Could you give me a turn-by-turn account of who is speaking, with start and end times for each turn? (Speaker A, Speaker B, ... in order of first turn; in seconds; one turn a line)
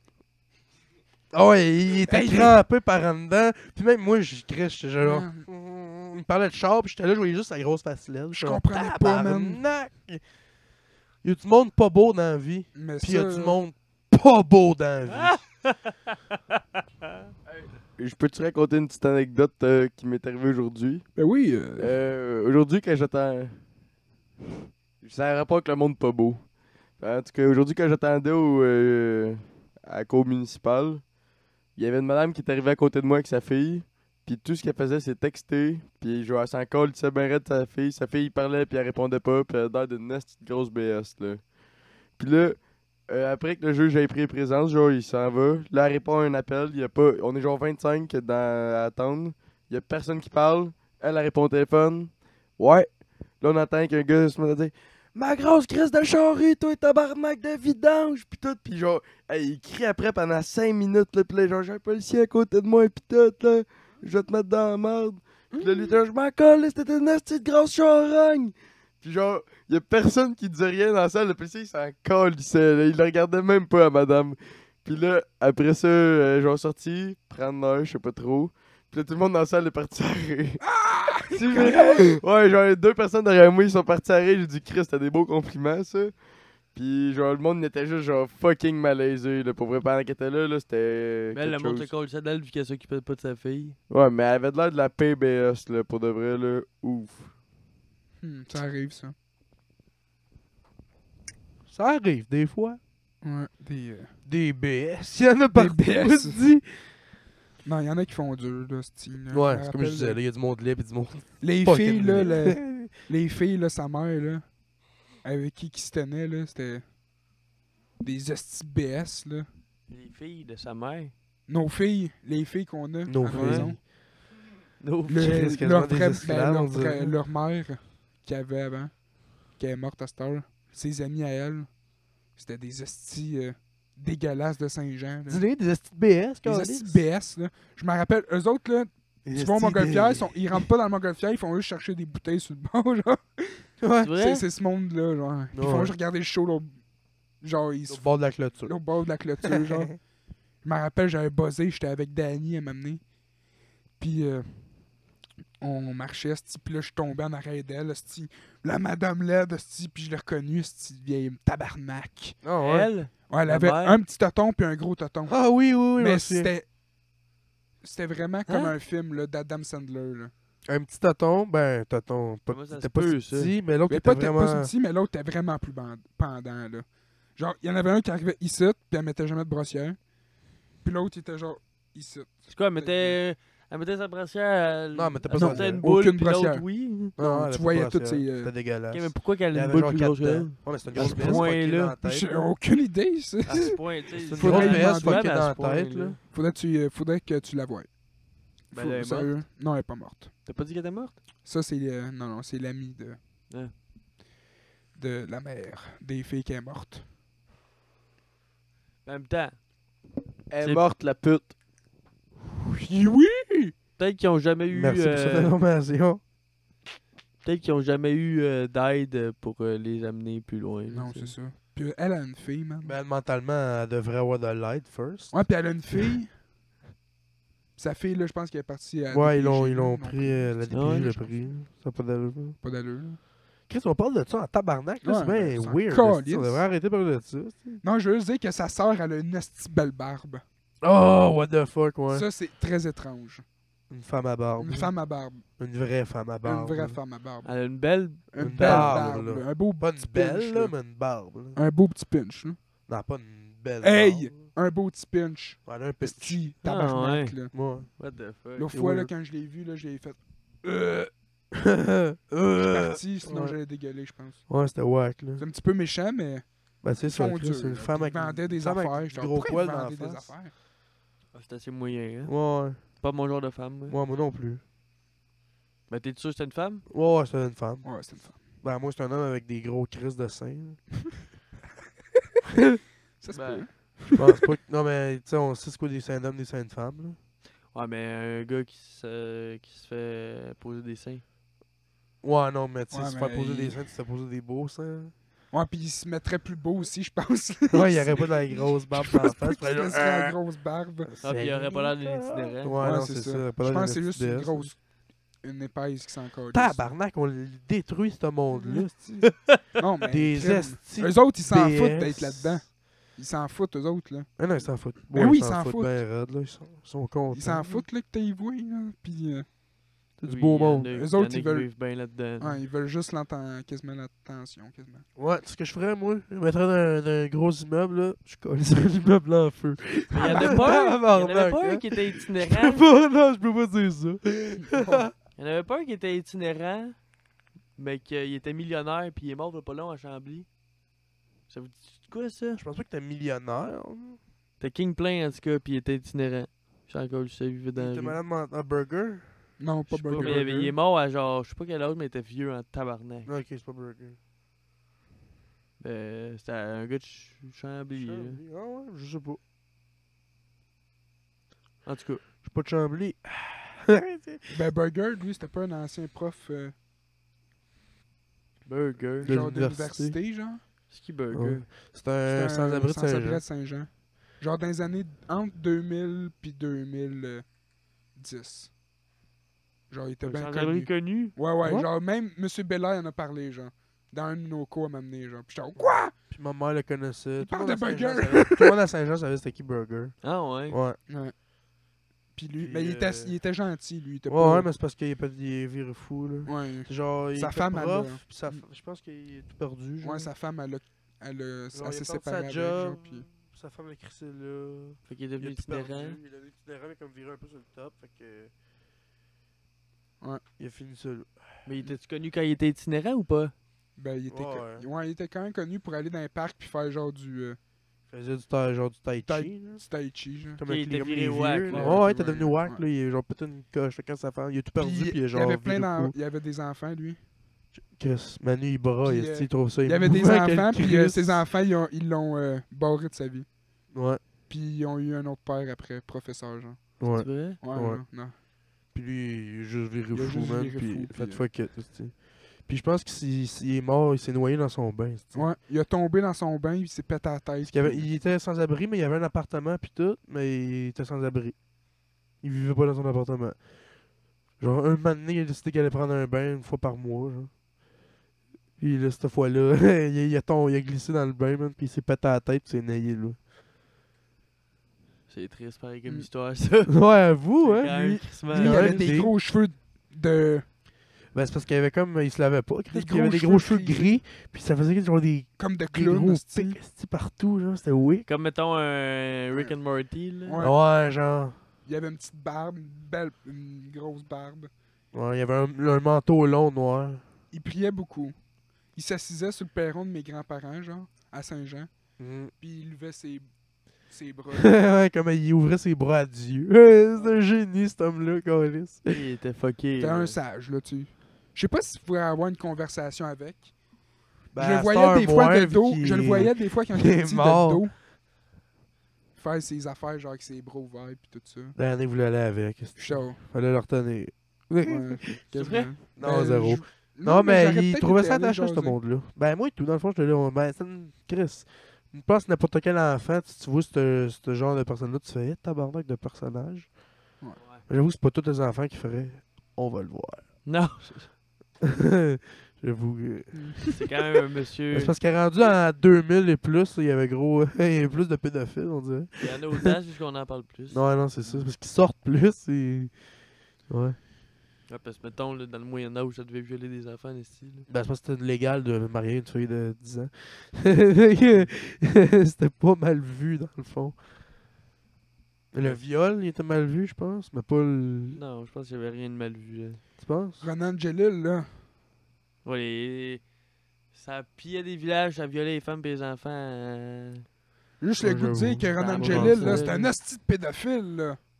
Speaker A: 1.3-10.2
Speaker B: 2.0-2.6
Speaker B: 5.0-5.5
Speaker B: 8.3-9.6
Speaker A: 11.2-15.4
Speaker B: 12.7-13.6
Speaker C: 15.1-16.1
Speaker D: 17.5-21.1
Speaker B: 21.2-21.9
Speaker D: 21.8-23.6
Speaker D: 25.0-26.4
Speaker D: 27.0-31.0
Speaker D: 31.8-41.4
Speaker D: 42.2-52.9
Speaker D: 53.4-80.6
Speaker B: 65.5-65.9
Speaker B: 80.6-82.1
Speaker D: 81.3-86.1
Speaker D: 86.7-91.9
Speaker C: 91.3-93.8
Speaker D: 93.9-97.3
Speaker B: 98.2-99.1
Speaker A: 101.7-102.8
Speaker B: 103.2-104.1
Speaker A: 104.2-106.9
Speaker B: 105.5-106.4
Speaker B: 107.6-110.2
Speaker A: 109.3-112.9
Speaker B: 111.4-114.5
Speaker B: 115.2-116.8
Speaker B: 118.0-119.5
Speaker C: 119.9-121.1
Speaker B: 121.5-123.8
Speaker A: 123.1-123.8
Speaker C: 123.3-123.7
Speaker C: 124.8-125.5
Speaker B: 125.1-131.7
Speaker A: 125.2-127.2
Speaker B: 132.3-135.4
Speaker A: 135.3-137.0
Speaker B: 136.4-146.8
Speaker A: 139.2-140.7
Speaker A: 143.8-144.1
Speaker C: 144.0-144.4
Speaker A: 145.5-145.9
Speaker B: 147.4-150.0
Speaker A: 147.9-148.7
Speaker A: 149.4-149.9
Speaker B: 150.6-153.0
Speaker B: 154.0-154.6
Speaker B: 155.6-162.4
Speaker A: 162.4-162.9
Speaker C: 162.6-164.0
Speaker B: 163.3-166.7
Speaker A: 165.3-166.5
Speaker B: 167.8-170.3
Speaker C: 168.5-168.7
Speaker A: 170.7-174.7
Speaker C: 172.5-173.5
Speaker B: 173.9-180.0
Speaker B: 180.8-183.2
Speaker C: 182.5-187.1
Speaker A: 184.9-185.9
Speaker B: 185.3-188.5
Speaker A: 187.2-192.4
Speaker C: 188.9-191.9
Speaker B: 190.9-191.5
Speaker B: 192.0-193.8
Speaker C: 193.4-196.2
Speaker A: 194.2-196.2
Speaker B: 194.3-195.3
Speaker B: 196.3-197.9
Speaker B: 198.7-200.3
Speaker C: 198.7-199.4
Speaker C: 200.4-201.1
Speaker B: 201.4-203.2
Speaker B: 204.9-207.0
Speaker C: 209.0-209.6
Speaker D: 210.5-211.5
Speaker C: 210.6-210.9
Speaker B: 212.6-213.7
Speaker C: 214.0-215.5
Speaker A: 214.7-216.2
Speaker C: 217.4-221.3
Speaker B: 220.9-222.9
Speaker A: 222.8-226.2
Speaker B: 225.3-226.3
Speaker B: 227.8-231.5
Speaker A: 229.1-232.6
Speaker C: 230.7-231.1
Speaker B: 232.6-233.2
Speaker A: 233.7-237.8
Speaker B: 235.0-236.7
Speaker B: 237.8-240.4
Speaker A: 240.8-242.2
Speaker B: 242.1-243.4
Speaker A: 243.9-244.9
Speaker B: 244.6-245.4
Speaker A: 245.6-247.0
Speaker B: 246.4-247.5
Speaker C: 247.4-249.1
Speaker B: 248.3-250.7
Speaker A: 248.3-251.6
Speaker B: 251.5-252.6
Speaker A: 252.9-254.4
Speaker B: 253.8-257.5
Speaker A: 255.7-256.4
Speaker C: 256.6-258.7
Speaker A: 257.5-257.9
Speaker B: 258.6-261.1
Speaker A: 258.7-259.1
Speaker A: 261.5-263.6
Speaker B: 262.6-264.4
Speaker A: 264.5-265.4
Speaker B: 265.4-270.5
Speaker A: 266.8-270.3
Speaker C: 271.3-273.9
Speaker A: 272.2-272.8
Speaker A: 273.9-274.6
Speaker C: 275.9-276.8
Speaker A: 276.9-280.8
Speaker B: 277.8-278.4
Speaker B: 283.2-284.4
Speaker C: 283.3-283.7
Speaker A: 284.1-287.2
Speaker C: 287.7-291.2
Speaker A: 292.2-295.1
Speaker B: 292.9-293.8
Speaker B: 295.5-301.1
Speaker A: 297.7-300.4
Speaker A: 301.0-304.7
Speaker C: 301.2-302.8
Speaker B: 302.8-306.9
Speaker A: 306.5-312.6
Speaker B: 309.8-314.3
Speaker A: 314.4-317.9
Speaker B: 315.1-316.0
Speaker B: 317.3-319.5
Speaker A: 320.2-320.9
Speaker C: 320.2-322.6
Speaker B: 320.9-321.8
Speaker B: 322.4-325.0
Speaker A: 325.1-335.1
Speaker C: 330.1-332.8
Speaker B: 330.3-330.8
Speaker B: 334.6-335.1
Speaker C: 335.4-337.0
Speaker C: 337.8-340.5
Speaker C: 341.5-342.6
Speaker A: 342.6-344.2
Speaker C: 344.6-348.2
Speaker A: 347.7-350.7
Speaker B: 349.6-350.7
Speaker C: 350.1-353.3
Speaker A: 353.2-354.2
Speaker C: 355.8-358.4
Speaker A: 357.9-359.4
Speaker C: 361.8-362.2
Speaker A: 362.4-364.6
Speaker B: 364.5-366.7
Speaker C: 368.6-369.3
Speaker A: 369.2-370.2
Speaker B: 369.2-370.6
Speaker C: 370.9-371.7
Speaker A: 371.3-373.4
Speaker B: 372.3-377.4
Speaker B: 378.1-378.7
Speaker B: 379.9-386.1
Speaker C: 380.2-381.3
Speaker A: 381.6-381.9
Speaker A: 385.8-391.0
Speaker B: 387.4-388.8
Speaker C: 390.2-390.8
Speaker B: 391.1-391.3
Speaker B: 392.3-394.7
Speaker A: 392.6-393.4
Speaker A: 394.3-400.3
Speaker B: 396.4-398.6
Speaker B: 400.0-403.3
Speaker A: 401.7-408.5
Speaker C: 405.1-406.2
Speaker A: 410.6-411.3
Speaker C: 411.6-413.5
Speaker B: 414.0-417.6
Speaker A: 414.3-414.8
Speaker A: 418.1-419.8
Speaker B: 419.2-420.6
Speaker A: 420.6-426.1
Speaker C: 420.6-422.2
Speaker B: 421.7-422.8
Speaker B: 424.8-427.2
Speaker A: 427.7-431.4
Speaker B: 429.0-433.5
Speaker A: 433.9-434.2
Speaker B: 434.5-436.9
Speaker A: 437.0-438.0
Speaker C: 437.1-437.6
Speaker B: 437.6-438.3
Speaker A: 438.9-445.5
Speaker B: 440.1-441.4
Speaker B: 445.3-448.1
Speaker A: 447.6-451.6
Speaker A: 452.4-457.5
Speaker A: 458.8-463.4
Speaker C: 465.3-469.2
Speaker A: 466.9-469.3
Speaker B: 468.5-470.6
Speaker A: 471.3-478.2
Speaker B: 472.9-474.1
Speaker B: 475.6-476.8
Speaker C: 478.2-480.6
Speaker B: 480.4-480.8
Speaker A: 480.6-481.6
Speaker B: 481.9-484.7
Speaker A: 485.1-487.2
Speaker B: 487.5-488.3
Speaker B: 488.9-491.9
Speaker A: 492.2-492.5
Speaker B: 492.6-493.5
Speaker B: 494.1-494.7
Speaker A: 494.5-499.2
Speaker C: 499.1-500.4
Speaker B: 500.0-503.7
Speaker A: 504.5-507.9
Speaker B: 504.6-507.9
Speaker B: 509.4-511.8
Speaker A: 511.8-515.2
Speaker B: 513.0-513.4
Speaker B: 514.8-519.0
Speaker C: 515.5-515.9
Speaker A: 516.1-527.0
Speaker A: 527.9-530.5
Speaker C: 530.6-531.3
Speaker A: 531.8-533.9
Speaker B: 533.5-533.8
Speaker C: 533.9-535.1
Speaker A: 534.9-539.9
Speaker C: 539.4-541.0
Speaker A: 540.9-543.4
Speaker A: 543.9-544.2
Speaker C: 544.9-547.9
Speaker A: 547.9-554.2
Speaker A: 555.7-558.4
Speaker C: 558.3-560.0
Speaker A: 560.2-560.7
Speaker B: 560.6-561.7
Speaker C: 562.6-563.4
Speaker C: 564.1-567.4
Speaker B: 568.0-571.4
Speaker A: 568.2-569.9
Speaker C: 569.0-570.1